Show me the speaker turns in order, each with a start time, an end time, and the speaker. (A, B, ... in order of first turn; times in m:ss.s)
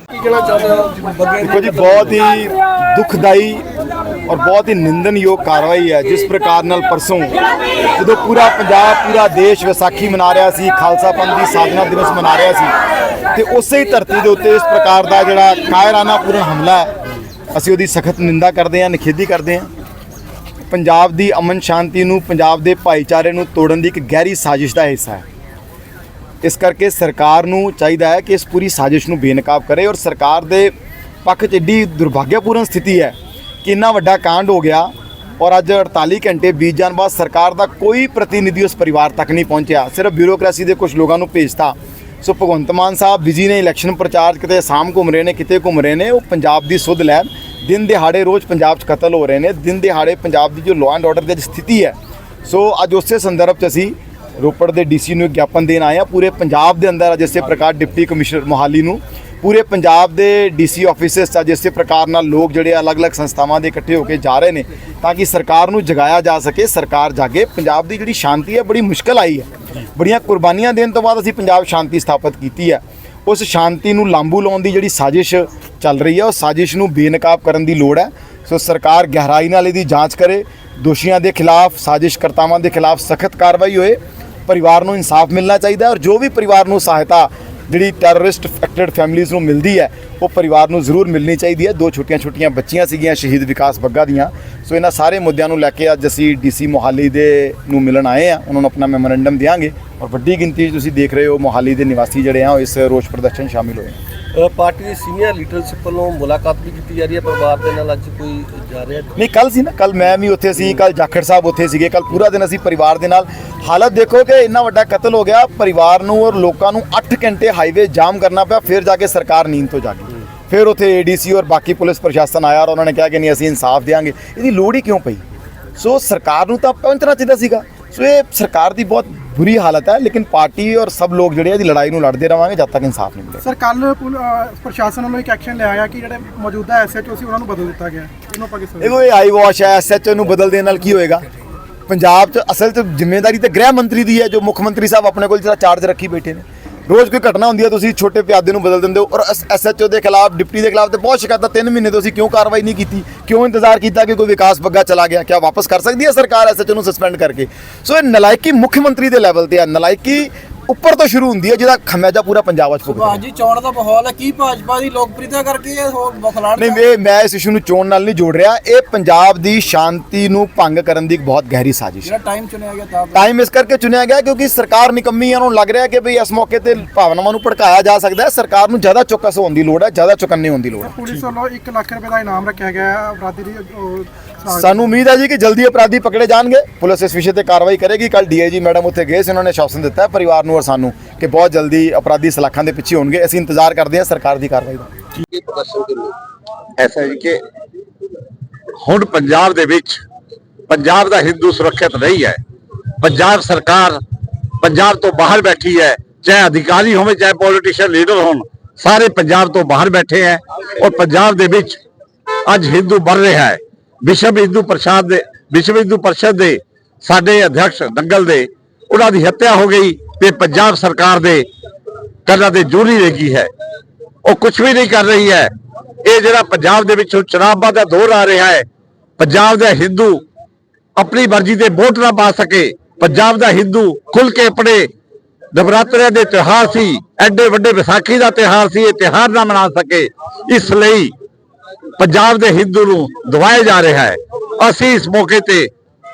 0:00.1-0:02.1 A
0:01.4-0:03.6 B
0:04.3-0:07.4 B
0:08.0-0:12.7 B
0:13.3-0:16.9 B
0:17.5-0:19.7 B
0:20.7-0:25.2 B
0:26.4-0:30.7 B
0:31.2-1:44.0 B
1:44.4-1:49.2 C
1:49.2-2:05.2 B
2:05.8-2:13.4 B
2:13.4-2:19.0 D
2:18.8-2:21.3 B
2:21.9-2:43.2 B
2:42.9-2:46.8 A
2:46.6-2:52.1 B
2:52.0-2:53.3 A
2:53.1-3:00.9 B
3:00.8-3:04.9 D
3:04.5-3:14.9 B
3:15.2-3:16.1 C
3:16.8-3:17.4 E
3:18.8-3:20.0 E
3:20.7-3:22.4 E
3:23.0-3:24.0 E
3:24.6-3:31.8 E
3:32.5-3:41.5 E
3:42.3-3:43.5 E
3:44.2-3:45.5 E
3:46.0-3:48.7 E
3:49.2-3:50.2 E
3:51.0-3:54.9 E
3:55.5-4:01.1 E
4:02.0-4:05.7 E